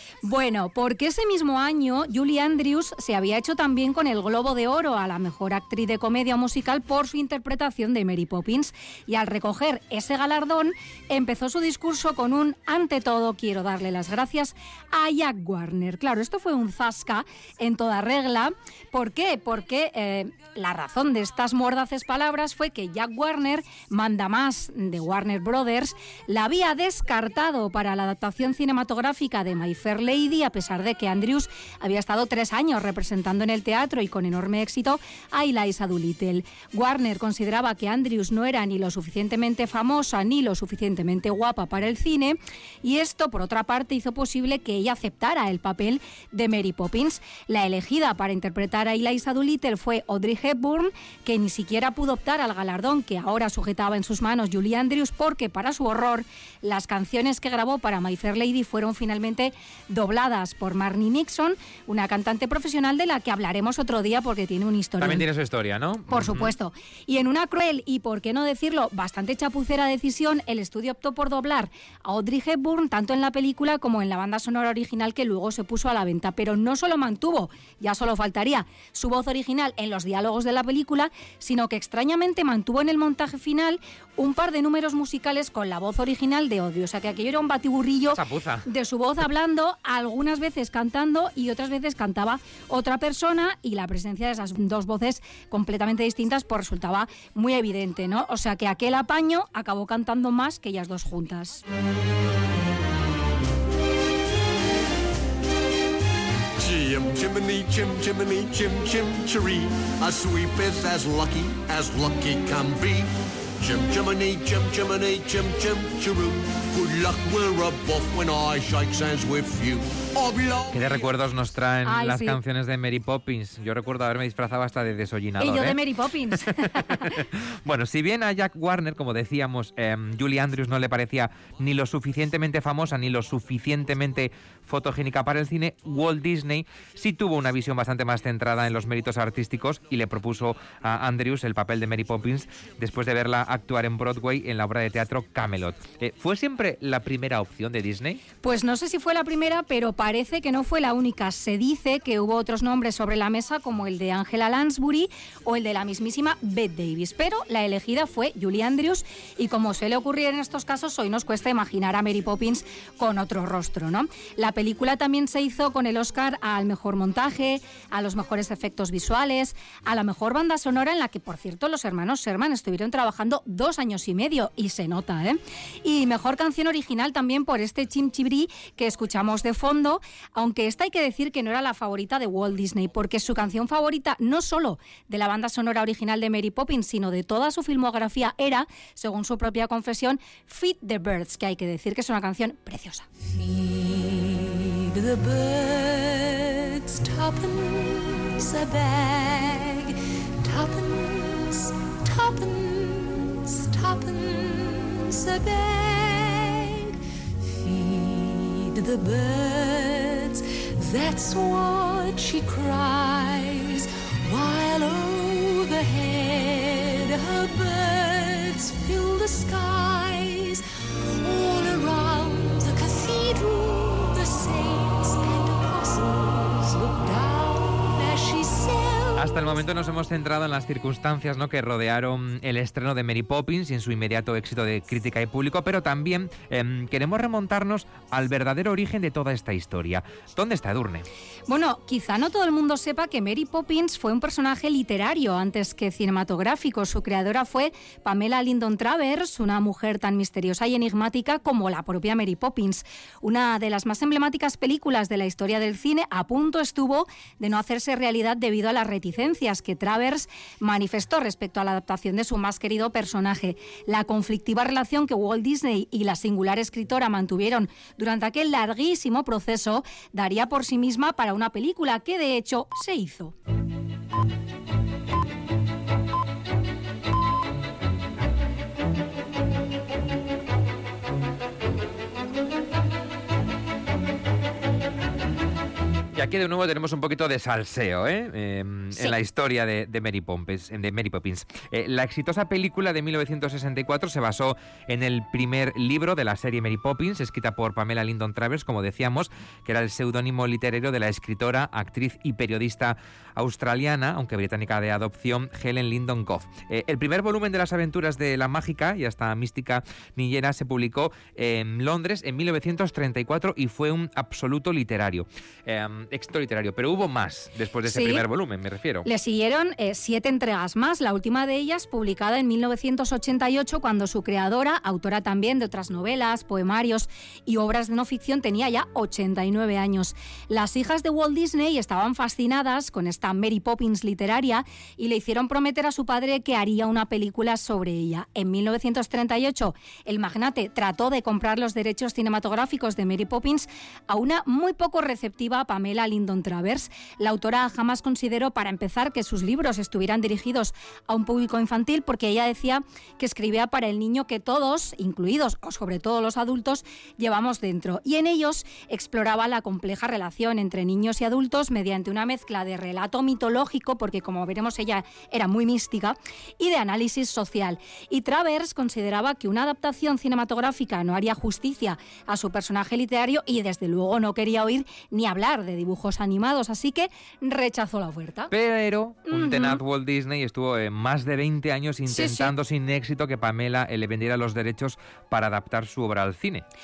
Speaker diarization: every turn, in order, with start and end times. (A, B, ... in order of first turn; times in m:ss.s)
0:00.2-1:05.2 A
1:05.0-1:06.5 B
1:06.1-1:41.6 A
1:28.1-1:28.6 B
1:46.6-1:53.1 C
1:53.6-2:01.1 C
2:00.7-2:05.8 B
2:01.8-2:02.4 A
2:05.4-2:07.1 A
2:06.3-2:28.2 B
2:28.4-3:13.0 A
3:13.3-3:40.6 D
3:41.2-3:49.5 D
3:49.2-4:01.0 B
4:01.5-4:33.3 A
4:46.1-5:19.1 B
5:17.8-5:18.2 A
5:19.0-6:18.5 A
6:18.5-6:26.6 B
6:19.3-6:19.8 A
6:22.1-6:22.5 A